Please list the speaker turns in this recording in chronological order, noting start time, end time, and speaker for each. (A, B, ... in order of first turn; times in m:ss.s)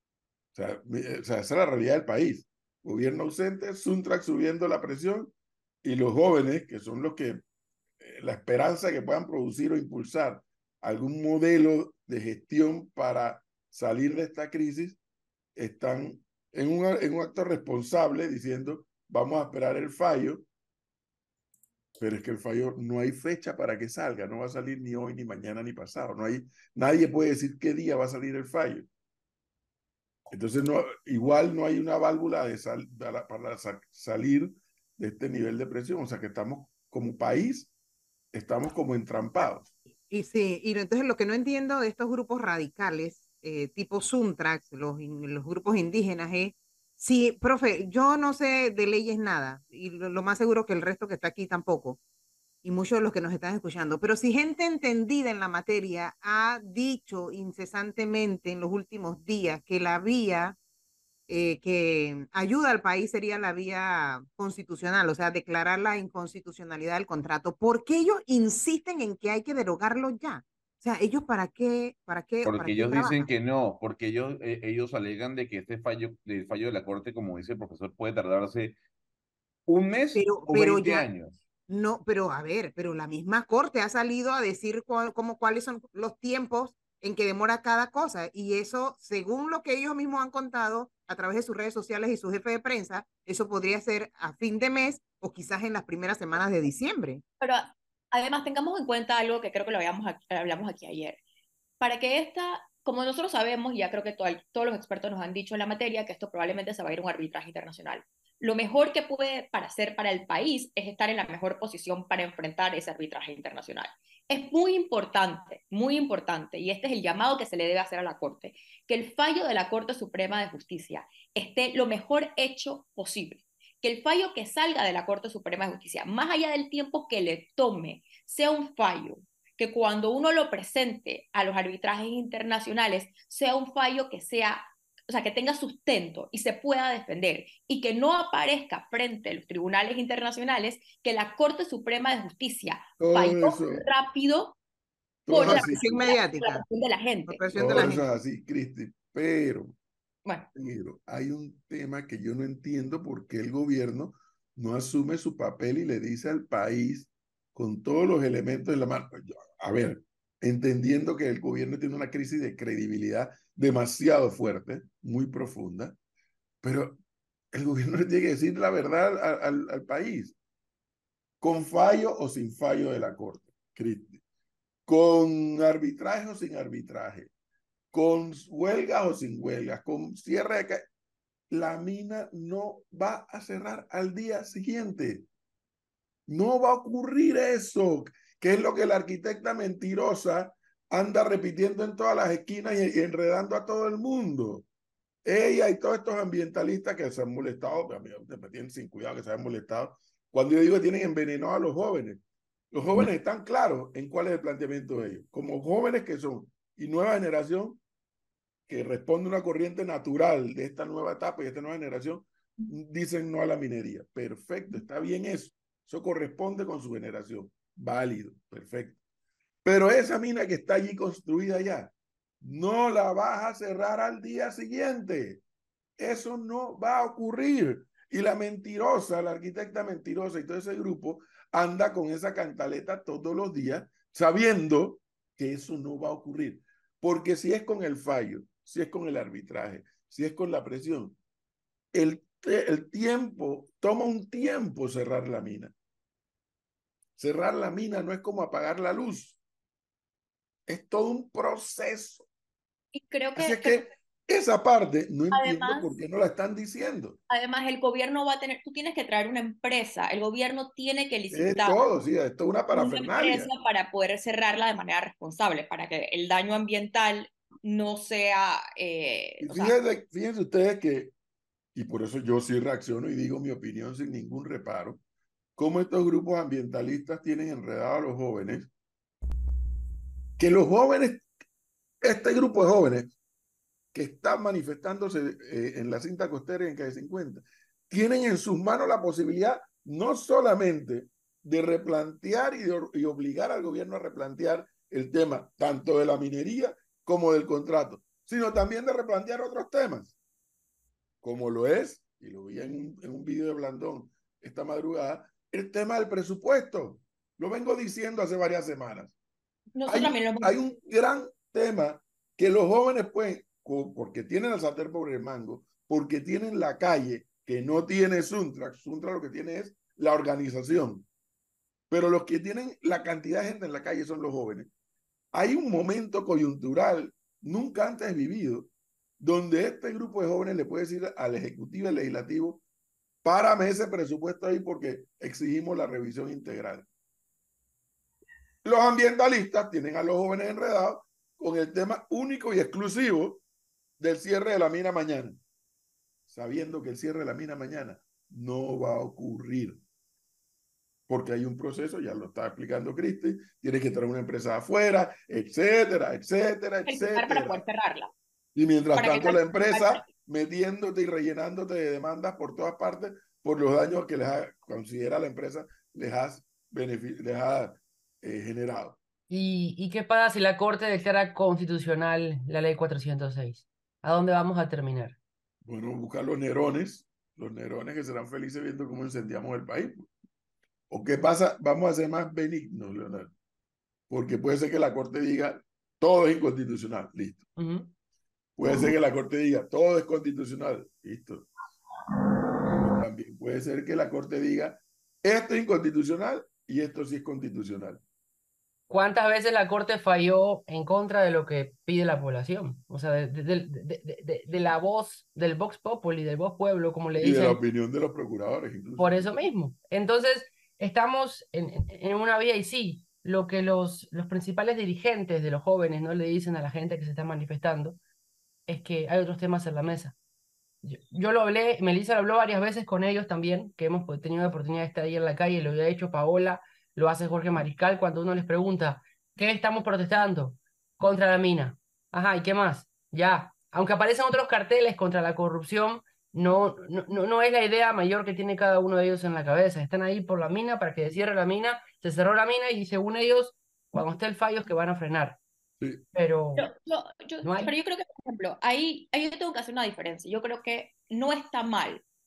0:00.5-0:07.4 A
0:08.0-0:15.0 A
0:15.5-0:20.4 A
0:22.0-0:28.9 A
0:30.3-0:37.7 A
0:38.3-0:39.7 A
0:40.1-0:52.0 B
0:52.6-1:00.6 B
1:01.3-1:13.3 B
1:12.4-1:18.7 C
1:19.7-1:21.4 C
1:20.1-1:21.1 B
1:21.7-1:37.2 B
1:37.4-1:41.2 D
1:41.8-2:24.6 D
2:23.0-2:23.8 A
2:25.2-2:25.9 A
2:25.3-2:28.0 D
2:25.3-2:26.6 B
2:27.3-2:28.0 B
2:27.5-2:29.7 A
2:30.5-2:46.0 A
2:46.6-2:47.0 A
2:47.5-2:50.4 A
2:51.4-2:54.2 A
2:54.9-2:57.3 A
2:57.9-3:00.8 A
3:01.5-3:05.2 A
3:06.3-3:14.6 A
3:15.2-3:22.2 A
3:22.7-3:27.8 A
3:28.7-3:39.0 A
3:39.6-3:45.4 A
3:46.0-4:01.2 A
4:01.9-4:05.7 A
4:07.2-4:09.4 A
4:10.7-4:12.2 A
4:12.9-4:13.9 D
4:13.3-4:17.2 A
4:15.3-4:16.0 D
4:17.3-4:21.8 D
4:21.3-4:23.5 A
4:22.7-4:29.8 D
4:29.4-4:31.1 A
4:31.7-4:35.0 A
4:35.6-4:38.7 A
4:40.4-4:41.3 A
4:42.0-4:43.1 A
4:43.9-5:00.1 A
5:01.2-5:09.1 A
5:09.7-5:10.5 D
5:09.8-5:21.0 A
5:21.9-5:24.7 A
5:25.3-5:32.6 A
5:33.2-5:36.9 A
5:38.6-5:43.4 A
5:44.0-5:45.4 A
5:46.3-5:49.8 A
5:51.1-5:57.6 A
5:56.9-5:58.1 D
5:58.5-6:09.0 A
5:59.0-6:00.0 D
6:09.3-6:15.2 E
6:15.6-6:20.1 A
6:20.9-6:23.3 A
6:24.1-6:27.4 A
6:27.6-6:27.9 E
6:28.6-6:31.5 A
6:32.8-6:38.0 A
6:38.9-6:47.6 E
6:47.2-6:49.3 A
6:49.0-6:58.0 E
6:58.7-7:00.1 E
7:00.8-7:25.4 E
7:26.1-7:26.7 E
7:26.6-7:32.0 D
7:27.4-7:27.7 E